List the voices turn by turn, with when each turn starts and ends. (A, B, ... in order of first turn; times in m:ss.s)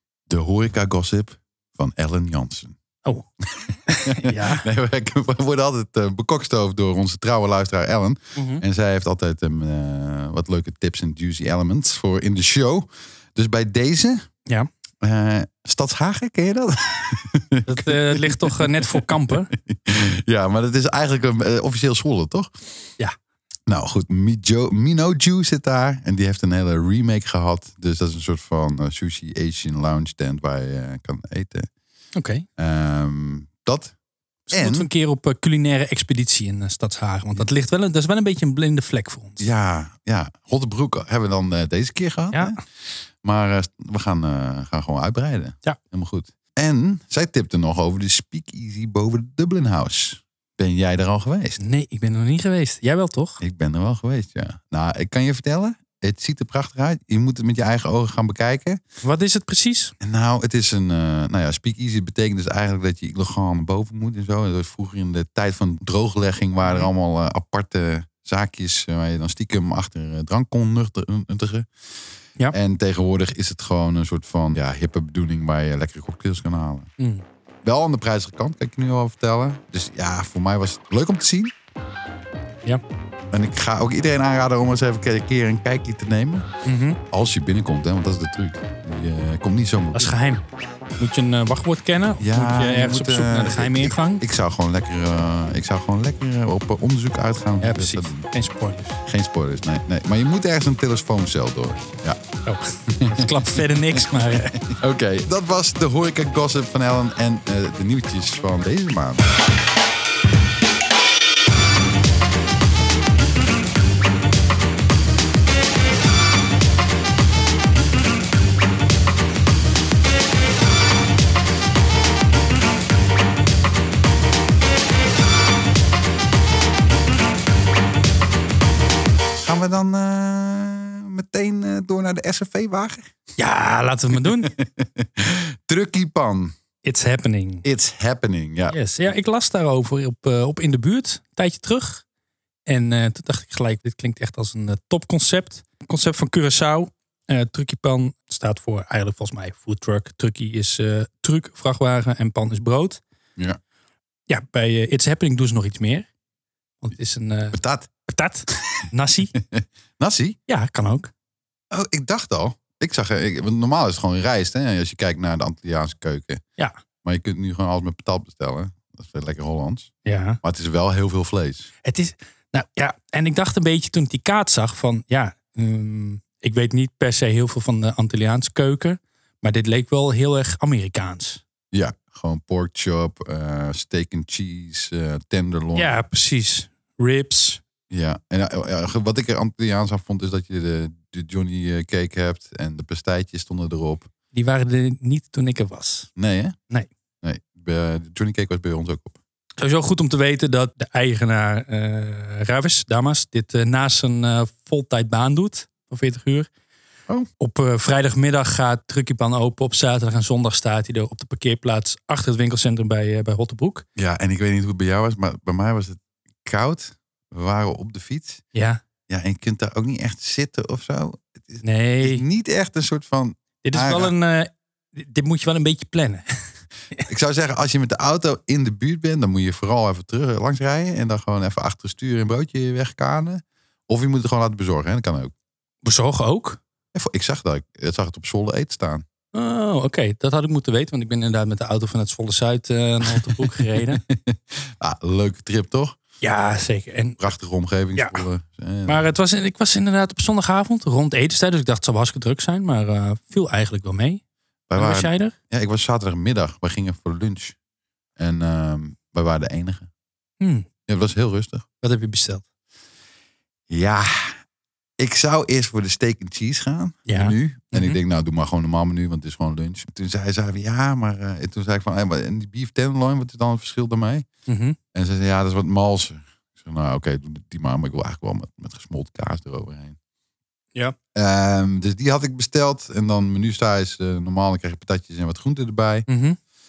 0:00.3-0:02.8 A
0:03.4-0:14.3 A
0:03.9-0:04.6 B
0:08.4-0:08.6 B
0:15.0-0:22.9 A
0:17.7-0:19.5 B
0:23.7-0:31.7 A
0:32.1-0:32.4 B
0:32.6-0:33.9 A
0:34.5-0:39.4 B
0:34.5-0:34.9 A
0:39.4-0:42.6 A
0:43.2-0:51.6 A
0:51.6-0:53.4 B
0:53.4-0:58.8 A
0:59.0-0:59.9 B
1:00.0-1:11.7 A
1:06.6-1:06.9 B
1:12.5-1:16.9 A
1:17.0-1:17.2 B
1:17.6-1:21.5 A
1:23.3-1:26.5 A
1:26.6-1:27.0 B
1:27.1-1:30.1 A
1:29.9-1:30.4 B
1:31.0-1:34.2 B
1:32.2-1:38.2 A
1:37.6-1:39.0 B
1:39.0-1:42.2 A
1:42.4-1:44.6 B
1:42.9-1:49.3 A
2:09.4-2:13.1 A
2:13.4-2:14.5 B
2:14.3-2:16.5 A
2:16.8-2:17.6 B
2:17.6-2:18.8 A
2:18.7-2:22.0 B
2:22.7-2:33.0 B
2:34.3-2:36.1 B
2:36.8-2:39.3 B
2:37.5-2:37.9 A
2:38.5-2:40.4 A
2:40.5-2:41.1 B
2:41.7-2:46.4 A
2:47.0-2:49.9 A
2:50.0-2:50.4 B
2:50.4-2:51.7 A
2:51.8-3:01.4 B
3:01.7-3:05.9 A
3:05.7-3:07.6 B
3:07.9-3:14.1 A
3:14.3-3:16.1 B
3:16.2-3:16.6 A
3:17.2-3:19.2 A
3:19.6-3:26.5 B
3:27.4-3:33.8 B
3:34.0-3:38.4 A
3:38.5-3:38.8 B
3:39.1-3:44.1 A
3:41.6-3:42.2 B
3:43.6-3:46.2 B
3:47.0-3:55.3 A
3:55.8-3:56.6 B
3:56.9-3:59.0 A
3:59.3-4:04.0 B
4:03.4-4:06.0 A
4:06.2-4:07.2 B
4:07.2-4:09.1 A
4:08.0-4:08.2 B
4:08.9-4:14.2 B
4:14.7-4:17.6 A
4:14.8-4:15.3 B
4:18.2-4:19.9 A
4:20.4-4:20.7 B
4:20.9-4:21.6 A
4:21.8-4:22.4 B
4:23.7-4:24.4 A
4:25.0-4:34.2 A
4:27.0-4:28.0 B
4:34.5-4:34.8 B
4:34.9-4:40.0 A
4:41.1-4:46.1 A
4:46.1-4:46.4 B